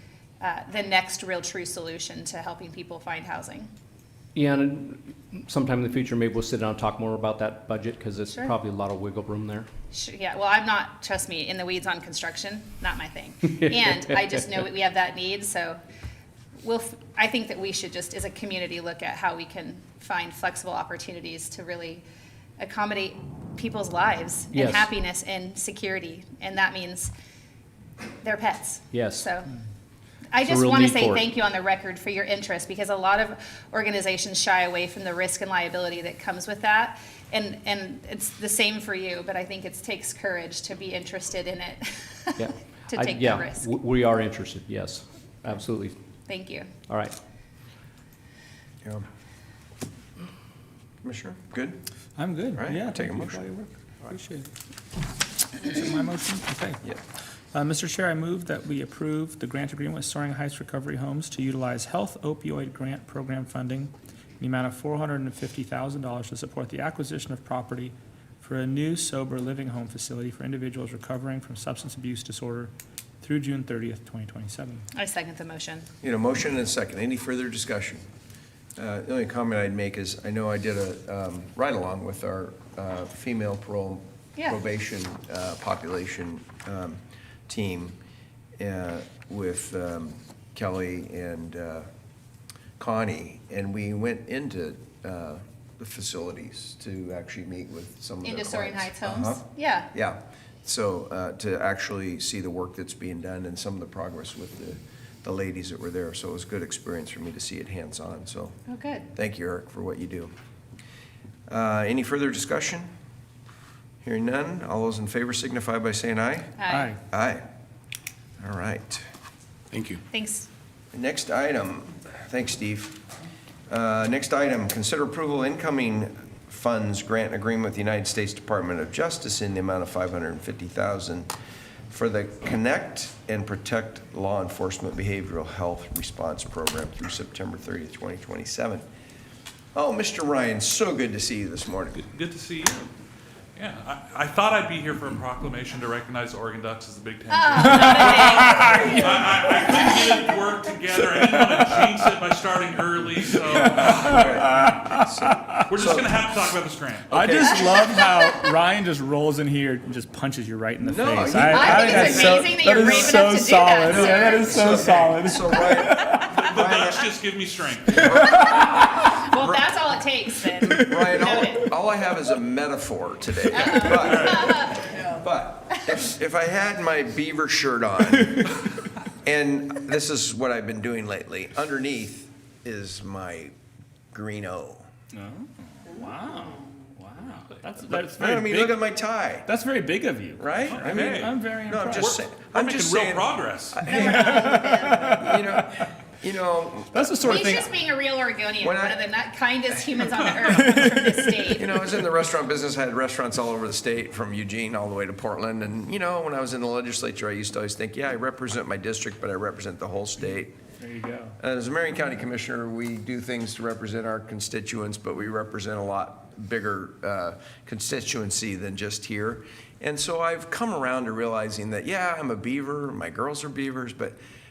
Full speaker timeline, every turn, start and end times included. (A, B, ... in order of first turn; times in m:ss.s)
0:00.4-0:03.7 A
0:04.4-0:09.7 B
0:09.9-0:15.8 A
0:16.6-0:22.0 A
0:22.6-0:27.1 A
0:24.5-0:24.9 B
0:28.2-0:29.5 A
0:28.9-0:29.3 B
0:30.3-0:43.7 A
0:30.4-0:31.2 B
0:42.4-0:46.0 B
0:46.3-0:46.7 A
0:46.9-0:47.2 B
0:51.0-0:51.8 C
0:52.2-0:54.5 D
0:52.6-0:53.5 C
0:55.6-0:56.8 D
0:57.5-1:14.8 D
1:15.0-1:15.9 A
1:16.0-1:18.0 C
1:18.8-1:28.0 C
1:28.6-1:31.9 C
1:32.8-1:48.6 C
1:38.2-1:39.9 A
1:48.7-1:49.1 A
1:49.2-1:50.3 C
1:51.5-1:52.9 C
1:54.0-1:56.6 C
1:56.6-1:56.9 A
1:56.7-1:57.0 D
1:57.1-1:57.4 C
1:58.4-1:59.0 C
2:00.1-2:00.5 A
2:00.9-2:03.0 C
2:03.7-2:11.3 C
2:11.9-2:18.8 C
2:19.8-2:22.0 C
2:22.0-2:22.9 E
2:23.6-2:34.5 E
2:27.3-2:30.2 A
2:27.7-2:29.3 D
2:33.6-2:35.6 D
2:33.8-2:36.2 C
2:35.7-2:37.1 E
2:37.1-2:37.9 C
2:37.1-2:46.4 D
2:40.8-2:43.1 C
2:41.5-2:44.6 A
2:43.9-2:47.1 C
2:46.3-2:48.1 E
2:48.0-2:48.8 C
2:48.0-2:48.8 D
2:48.4-2:51.7 A
2:49.4-2:49.7 C
2:50.6-2:51.0 D
2:50.7-2:58.6 C
2:53.5-2:54.9 A
2:54.0-2:54.6 E
2:59.2-3:03.5 C
3:04.1-3:04.9 C
3:05.1-3:08.8 D
3:08.0-3:09.5 C
3:09.5-3:12.2 D
3:10.4-3:17.6 C
3:10.7-3:11.4 E
3:11.9-3:13.9 E
3:13.9-3:15.2 A
3:13.9-3:15.7 D
3:16.9-3:17.7 D
3:17.2-3:21.7 A
3:18.6-3:19.0 C
3:20.5-3:21.5 D
3:21.6-3:30.6 C
3:30.8-3:31.4 D
3:31.4-3:44.2 C